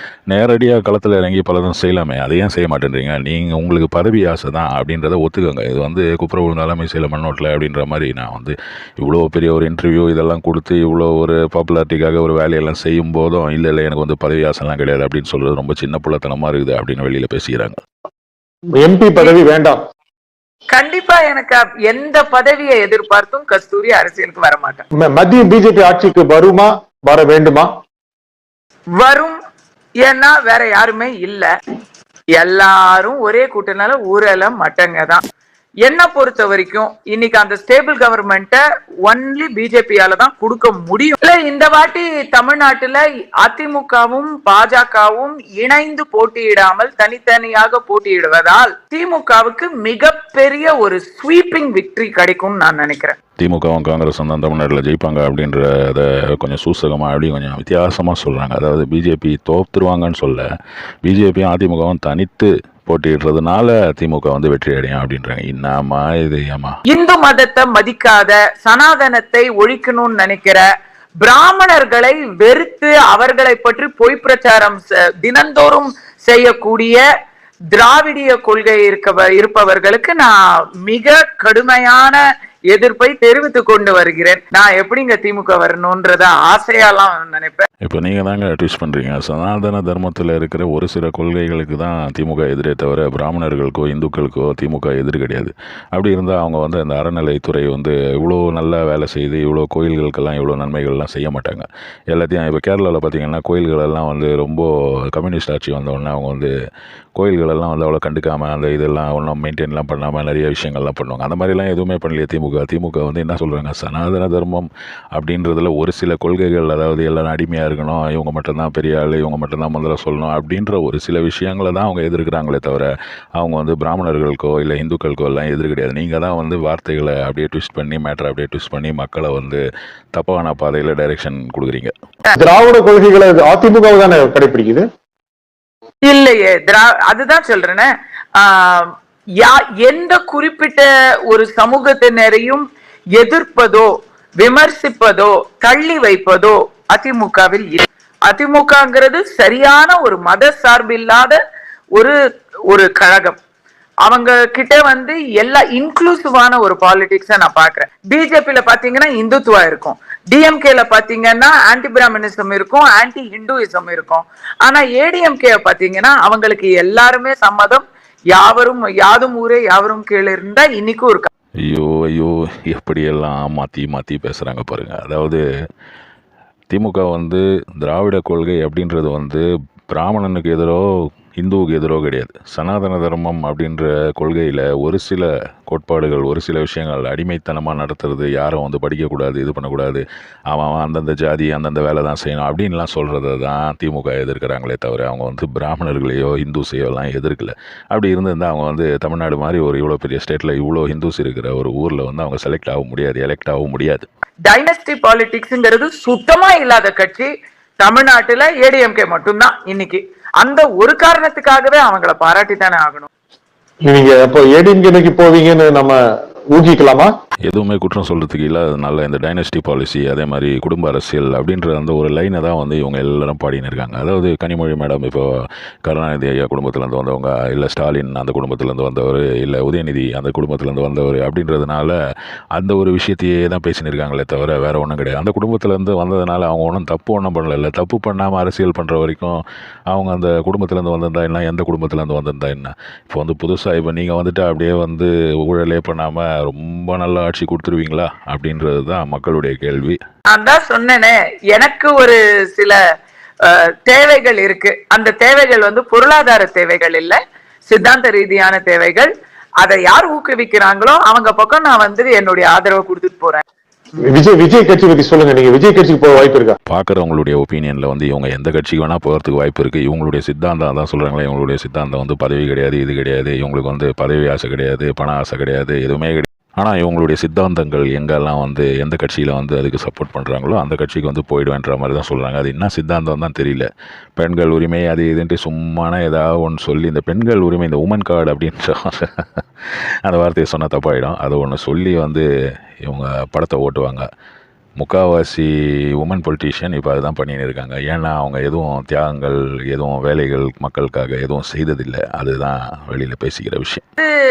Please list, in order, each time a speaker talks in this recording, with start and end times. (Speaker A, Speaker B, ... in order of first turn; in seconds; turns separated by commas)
Speaker A: 0.3-17.8, Speaker B: 18.8-19.8, Speaker C: 20.7-24.8, Speaker B: 24.9-27.7, Speaker C: 29.0-29.4, Speaker C: 30.0-31.5, Speaker C: 32.4-35.2, Speaker C: 35.8-53.1, Speaker A: 53.4-60.5, Speaker A: 61.0-66.8, Speaker C: 66.9-70.6, Speaker C: 71.2-77.0, Speaker C: 77.7-82.2, Speaker C: 82.7-87.7, Speaker A: 87.8-106.5, Speaker A: 107.2-129.6, Speaker A: 130.1-131.9, Speaker B: 132.3-134.8, Speaker C: 136.1-142.6, Speaker C: 143.2-151.4, Speaker C: 152.7-153.4, Speaker C: 154.1-171.3, Speaker A: 171.6-175.4, Speaker A: 176.7-180.8, Speaker A: 181.3-204.1, Speaker C: 204.5-207.3, Speaker C: 207.8-213.1, Speaker B: 213.8-216.0, Speaker B: 216.5-217.1, Speaker A: 217.4-225.3, Speaker A: 225.8-231.9, Speaker A: 232.5-250.0, Speaker C: 250.3-252.8, Speaker C: 253.4-259.1, Speaker C: 259.6-263.4, Speaker B: 264.1-266.6, Speaker A: 266.7-289.4, Speaker A: 290.0-292.2, Speaker A: 292.8-294.1, Speaker A: 294.8-303.8